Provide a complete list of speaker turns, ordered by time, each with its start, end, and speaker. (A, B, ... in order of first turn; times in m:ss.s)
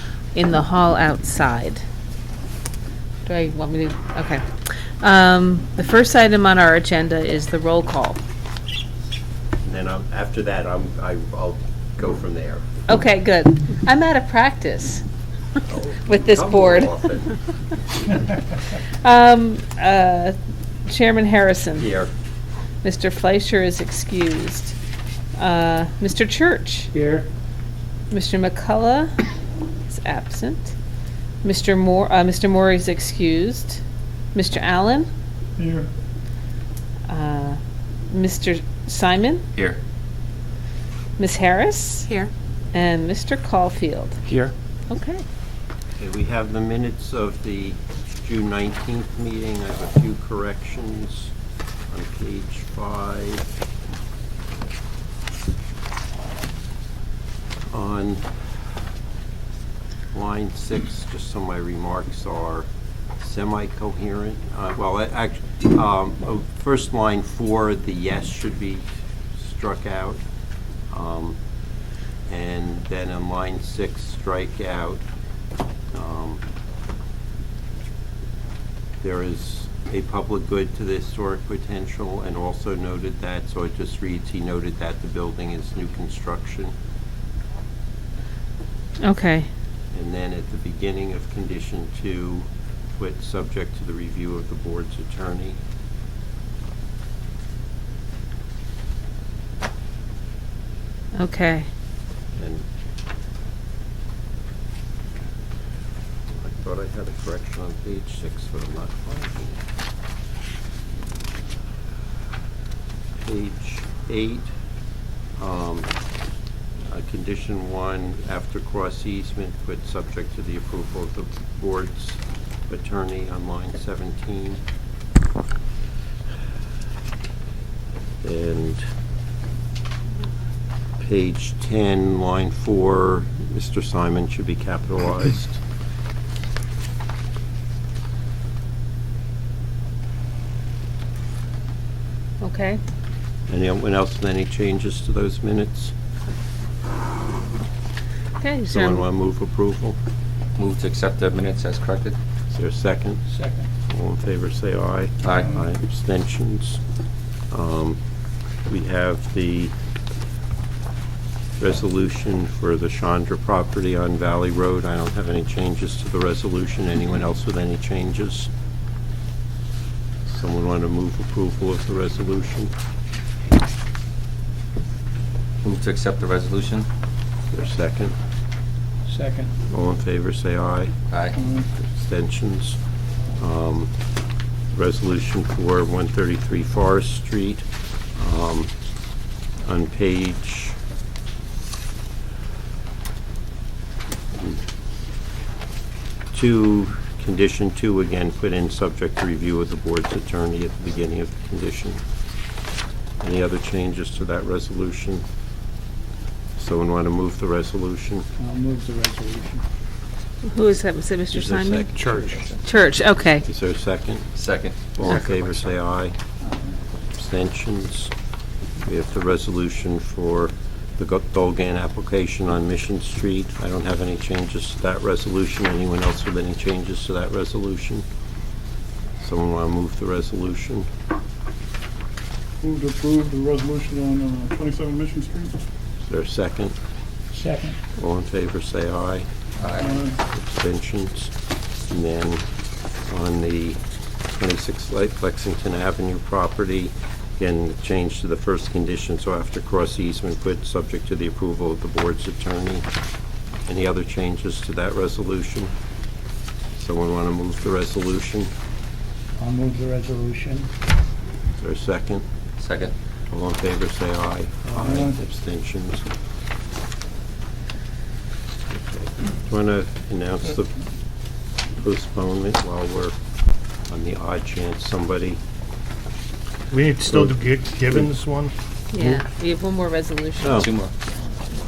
0:00.3-0:01.8 A
0:03.3-0:04.5 A
0:05.0-0:08.2 A
0:09.6-0:12.6 B
0:12.9-0:15.0 A
0:15.7-0:17.3 B
0:16.0-0:17.1 A
0:19.0-0:21.9 A
0:21.8-0:22.1 B
0:22.8-0:24.8 A
0:25.4-0:26.9 A
0:26.9-0:27.3 C
0:28.1-0:29.2 A
0:29.9-0:30.8 A
0:31.4-0:33.8 A
0:34.3-0:35.1 A
0:35.6-0:35.9 D
0:37.1-0:39.4 A
0:41.2-0:42.1 A
0:42.7-0:44.2 A
0:44.9-0:45.2 A
0:46.0-0:51.3 B
0:51.9-0:53.5 B
0:57.7-0:58.3 B
1:00.1-1:02.7 B
1:03.2-1:10.2 B
1:10.9-1:11.4 B
1:12.3-1:15.0 B
1:15.9-1:16.4 B
1:19.0-1:26.7 B
1:29.0-1:29.5 A
1:29.9-1:35.6 B
1:41.2-1:41.7 A
1:42.4-1:42.6 B
1:46.3-1:49.6 B
1:53.2-1:54.5 B
1:55.4-1:55.9 B
1:56.9-2:04.6 B
2:08.2-2:08.8 B
2:11.0-2:15.6 B
2:22.4-2:22.8 A
2:23.5-2:25.9 B
2:28.4-2:29.0 A
2:28.7-2:30.0 B
2:30.6-2:32.2 E
2:32.5-2:33.2 B
2:33.3-2:33.7 C
2:33.9-2:36.8 B
2:35.2-2:35.5 E
2:37.5-2:38.0 B
2:38.7-2:39.7 B
2:41.6-2:48.5 B
2:50.3-2:52.7 B
2:55.6-2:56.9 E
2:57.5-2:58.2 B
2:59.1-2:59.5 C
2:59.7-3:00.9 B
3:01.1-3:01.4 E
3:01.3-3:01.7 D
3:01.8-3:02.8 B
3:03.4-3:03.9 B
3:04.7-3:08.7 B
3:09.6-3:10.8 B
3:14.4-3:14.6 B
3:16.3-3:22.0 B
3:23.2-3:25.2 B
3:26.6-3:28.3 B
3:28.4-3:29.6 C
3:30.4-3:31.9 A
3:31.3-3:32.2 B
3:32.0-3:32.5 F
3:32.6-3:33.5 A
3:33.5-3:34.3 B
3:34.4-3:34.8 E
3:35.0-3:36.2 B
3:37.2-3:38.1 B
3:38.8-3:48.0 B
3:49.2-3:50.9 B
3:52.6-3:55.6 D
3:56.0-3:56.8 B
3:57.3-3:57.8 C
3:58.0-3:59.3 B
3:59.6-3:59.9 E
3:59.7-4:00.2 D
4:00.3-4:01.3 B
4:01.9-4:02.4 B
4:03.1-4:03.8 B
4:04.3-4:12.9 B
4:13.7-4:15.7 B
4:16.8-4:18.5 B
4:19.4-4:20.7 C
4:21.6-4:22.2 B
4:22.6-4:22.9 E
4:23.3-4:26.1 B
4:24.7-4:25.2 C
4:28.7-4:30.7 B
4:31.8-4:33.2 B
4:33.9-4:35.4 B
4:36.7-4:38.5 F
4:37.1-4:37.4 B
4:38.9-4:40.7 A
4:40.4-4:40.7 B
4:40.6-4:40.9 E